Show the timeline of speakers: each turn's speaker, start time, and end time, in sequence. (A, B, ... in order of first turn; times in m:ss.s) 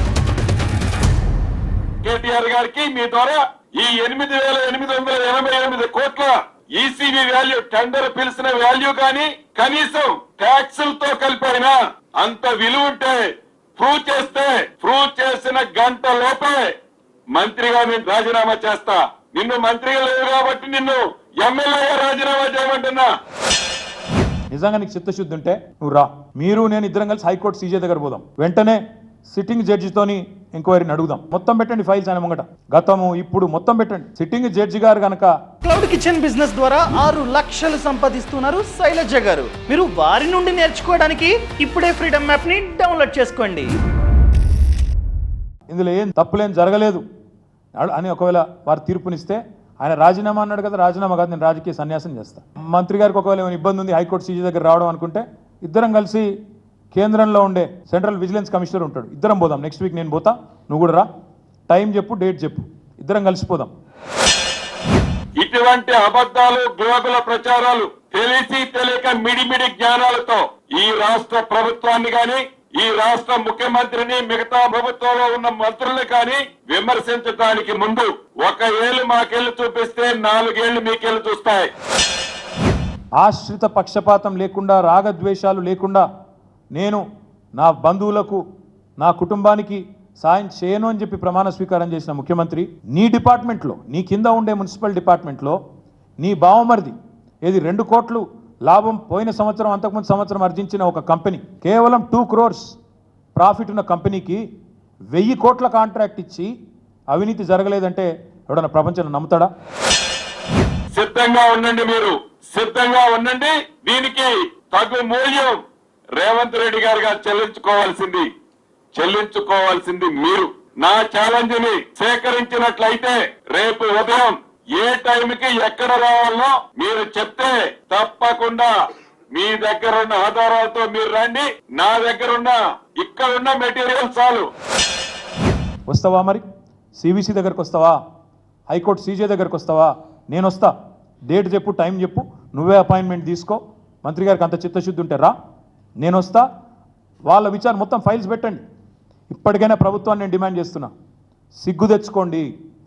0:02.0-0:13.2 A
0:13.8-0:16.6 A
0:17.4-0:23.1 A
0:24.5-0:35.3 B
0:35.7-0:43.6 C
0:45.7-0:47.0 B
0:47.8-0:56.3 B
0:56.9-1:01.1 B
1:01.7-1:03.7 B
1:05.4-1:21.7 A
1:23.2-1:26.0 B
1:26.7-1:27.0 B
1:27.6-1:28.4 B
1:29.0-1:35.6 B
1:36.2-1:42.8 B
1:43.4-1:44.4 B
1:45.1-1:46.5 B
1:47.1-1:49.5 B
1:50.9-1:55.6 A
1:56.2-1:58.3 A
1:59.0-2:08.7 A
2:09.3-2:14.5 A
2:15.9-2:16.4 B
2:17.0-2:18.0 B
2:18.7-2:20.7 B
2:21.3-2:25.3 B
2:26.0-2:26.4 B
2:27.3-2:28.6 B
2:29.3-2:30.9 B
2:31.6-2:32.5 B